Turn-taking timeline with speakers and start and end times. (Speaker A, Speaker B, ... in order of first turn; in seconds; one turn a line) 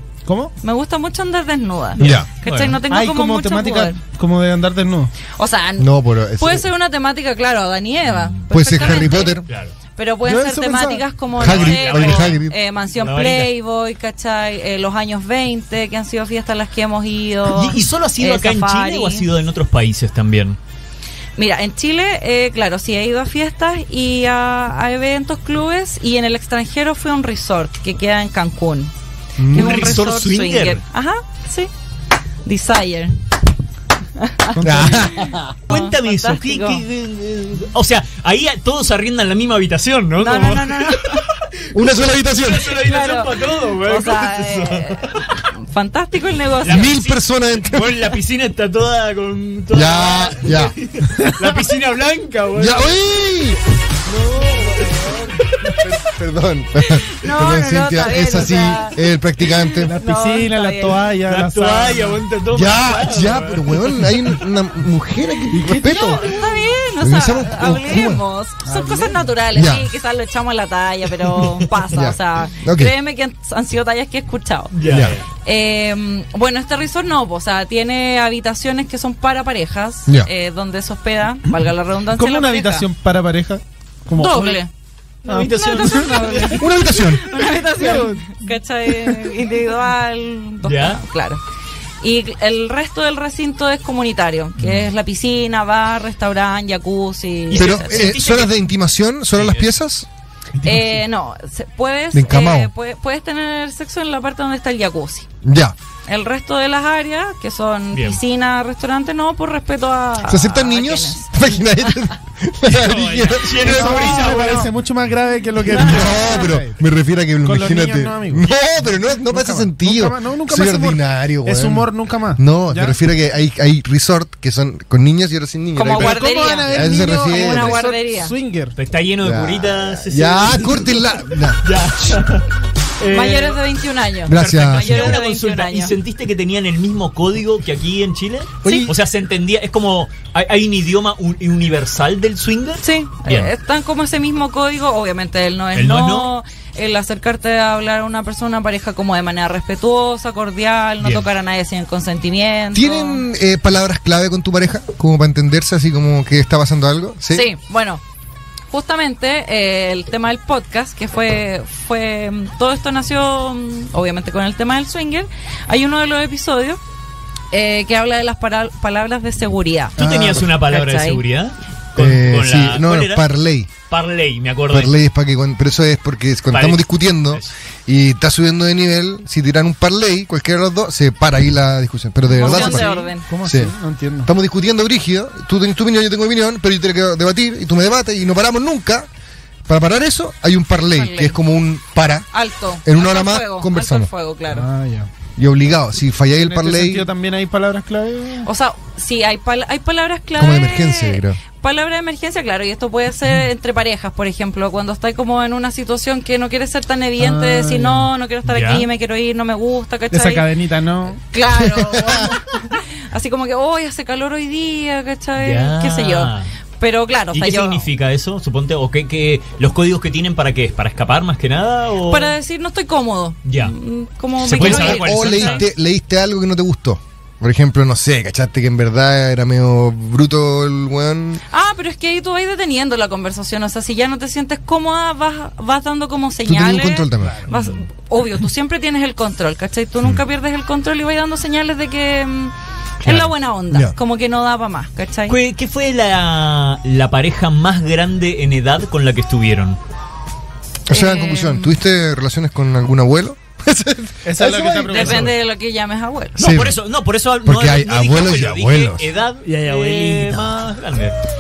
Speaker A: 0.3-0.5
Speaker B: 0.6-4.0
Speaker C: 2.0-2.8
Speaker D: 2.0-2.3
Speaker A: 2.9-5.1
Speaker B: 5.4-9.4
Speaker D: 5.8-6.7
Speaker C: 8.1-9.7
Speaker D: 8.5-9.5
Speaker B: 9.9-19.3
Speaker A: 10.3-11.0
Speaker D: 11.4-12.6
Speaker C: 11.4-12.4
Speaker C: 13.0-13.5
Speaker C: 17.5-20.6
Speaker B: 21.4-28.9
Speaker D: 29.4-30.0
Speaker C: 29.5-30.8
Speaker B: 29.5-31.7
Speaker B: 32.5-33.2
Speaker B: 34.2-36.8
Speaker A: 34.6-35.3
Speaker D: 34.6-35.5
Speaker C: 35.7-45.4
Speaker B: 40.2-41.3
Speaker D: 41.7-42.8
Speaker B: 42.8-46.9
Speaker C: 46.6-53.0
Speaker D: 46.7-48.1
Speaker D: 49.7-50.8
Speaker D: 52.5-53.6
Speaker C: 54.1-55.8
Speaker D: 55.8-59.9
Speaker B: 57.1-59.0
Speaker B: 59.6-61.0
Speaker A: 59.8-62.2
Speaker C: 61.3-64.2
Speaker D: 62.5-66.3
Speaker A: 65.5-65.9
Speaker B: 65.7-74.7
Speaker D: 67.0-68.2
Speaker A: 68.7-69.3
Speaker D: 69.5-69.9
Speaker C: 71.4-71.7
Speaker D: 71.9-72.9
Speaker C: 74.7-75.2
Speaker D: 74.9-75.2
Speaker B: 75.5-82.9
Speaker A: 82.1-84.6
Speaker B: 84.2-84.7
Speaker C: 85.2-86.7
Speaker A: 85.3-86.2
Speaker B: 85.5-91.4
Speaker D: 86.6-87.2
Speaker A: 87.6-88.4
Speaker C: 90.6-91.0
Speaker B: 92.0-98.1
Speaker C: 94.6-94.9
Speaker C: 97.5-98.6
Speaker D: 97.5-100.1
Speaker C: 99.4-99.7
Speaker B: 100.6-105.3
Speaker D: 102.1-102.7
Speaker D: 105.4-105.8
Speaker B: 106.1-111.3
Speaker C: 107.9-108.2
Speaker D: 110.2-114.4
Speaker C: 112.8-114.8
Speaker A: 112.8-116.8
Speaker B: 114.2-114.5
Speaker D: 115.7-127.8
Speaker B: 115.7-116.5
Speaker A: 117.4-118.5
Speaker A: 119.3-123.0
Speaker B: 125.8-128.3
Speaker A: 125.9-128.7
Speaker C: 128.8-132.5
Speaker D: 129.2-132.2
Speaker C: 133.0-133.6
Speaker B: 133.1-135.9
Speaker D: 134.3-135.2
Speaker C: 134.3-143.5
Speaker B: 138.6-138.9
Speaker A: 138.7-138.9
Speaker B: 142.8-153.2
Speaker C: 145.7-146.3
Speaker D: 152.7-157.5
Speaker B: 157.3-158.0
Speaker B: 158.7-166.8
Speaker B: 167.5-171.2
Speaker C: 170.0-173.3
Speaker D: 170.0-170.5
Speaker D: 172.0-173.7
Speaker C: 173.9-174.9
Speaker D: 174.7-182.9
Speaker C: 176.5-177.5
Speaker B: 182.3-183.3
Speaker A: 182.4-184.3
Speaker D: 183.4-183.7
Speaker D: 184.2-189.1
Speaker D: 189.7-192.3
Speaker B: 190.9-191.4
Speaker B: 192.3-194.7
Speaker D: 192.8-194.1
Speaker A: 194.5-195.1
Speaker D: 195.4-197.1
Speaker A: 196.4-198.5
Speaker B: 198.4-210.5
Speaker D: 200.4-201.4
Speaker A: 207.2-208.1
Speaker C: 208.4-208.9
Speaker A: 210.1-211.2
Speaker B: 211.3-217.9
Speaker D: 211.6-212.3
Speaker C: 215.4-216.5
Speaker C: 217.3-222.3
Speaker B: 222.1-225.6
Speaker C: 223.5-223.7
Speaker C: 224.4-225.7
Speaker D: 224.6-231.4
Speaker B: 231.5-245.4
Speaker D: 236.4-237.4
Speaker A: 237.2-237.5
Speaker C: 237.5-237.8
Speaker C: 243.0-243.3
Speaker C: 245.3-249.8
Speaker D: 250.9-254.5
Speaker B: 250.9-251.8
Speaker A: 254.2-255.3
Speaker B: 254.5-256.4
Speaker C: 254.9-255.3
Speaker D: 256.4-256.8
Speaker C: 256.4-261.2
Speaker D: 257.4-259.1
Speaker A: 259.5-260.6